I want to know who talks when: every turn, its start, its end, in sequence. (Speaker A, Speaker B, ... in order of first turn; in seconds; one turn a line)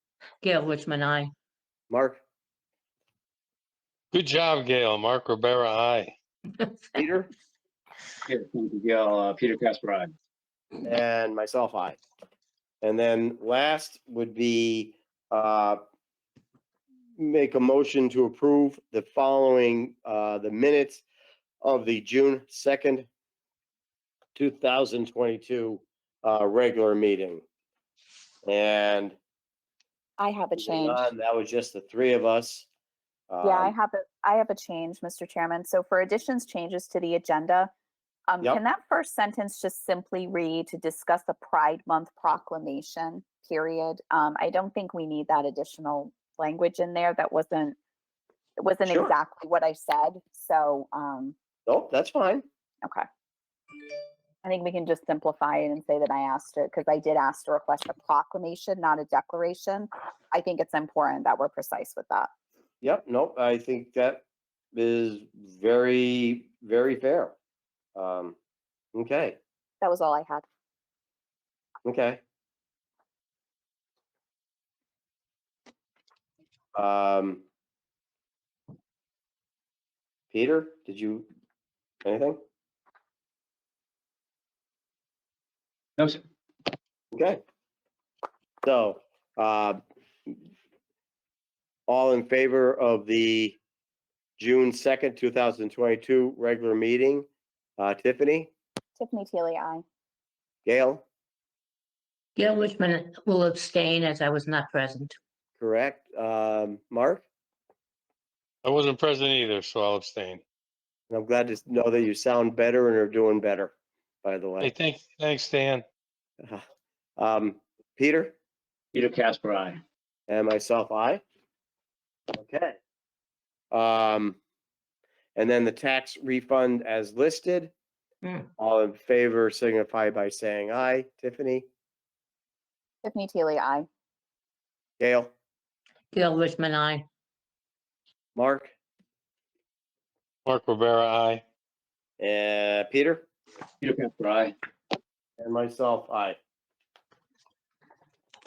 Speaker A: 0.4-1.3
Speaker B: 1.9-2.2
Speaker C: 4.1-6.1
Speaker A: 6.6-7.0
Speaker B: 6.9-7.3
Speaker D: 8.3-10.1
Speaker B: 10.8-12.0
Speaker B: 12.8-15.8
Speaker B: 17.2-21.0
Speaker B: 21.6-23.1
Speaker B: 24.4-27.4
Speaker B: 28.4-29.2
Speaker E: 30.2-31.0
Speaker B: 30.6-32.7
Speaker B: 33.3-33.7
Speaker E: 33.4-37.7
Speaker E: 38.3-47.7
Speaker E: 48.6-51.3
Speaker B: 48.8-49.1
Speaker B: 51.6-52.4
Speaker E: 54.4-62.3
Speaker B: 62.8-64.2
Speaker B: 64.7-67.3
Speaker B: 68.0-68.4
Speaker B: 68.9-69.4
Speaker E: 69.8-70.4
Speaker B: 71.8-72.2
Speaker B: 76.7-77.4
Speaker B: 80.3-81.3
Speaker B: 82.0-82.4
Speaker B: 87.1-87.4
Speaker B: 88.6-90.4
Speaker B: 91.9-93.6
Speaker B: 94.4-98.5
Speaker E: 99.0-99.8
Speaker B: 100.6-101.0
Speaker A: 102.3-105.2
Speaker B: 105.6-107.2
Speaker C: 108.6-110.4
Speaker B: 111.1-114.7
Speaker C: 114.6-115.8
Speaker B: 117.2-118.3
Speaker D: 118.9-119.8
Speaker B: 120.3-121.2
Speaker B: 122.3-122.8
Speaker B: 123.7-124.4
Speaker B: 125.3-127.7
Speaker A: 128.2-128.5
Speaker B: 128.6-131.7
Speaker E: 133.0-133.9
Speaker B: 135.0-135.3
Speaker A: 136.1-137.1
Speaker B: 138.3-138.7
Speaker C: 140.4-141.4
Speaker B: 142.2-143.3
Speaker D: 143.8-144.5
Speaker B: 145.4-146.4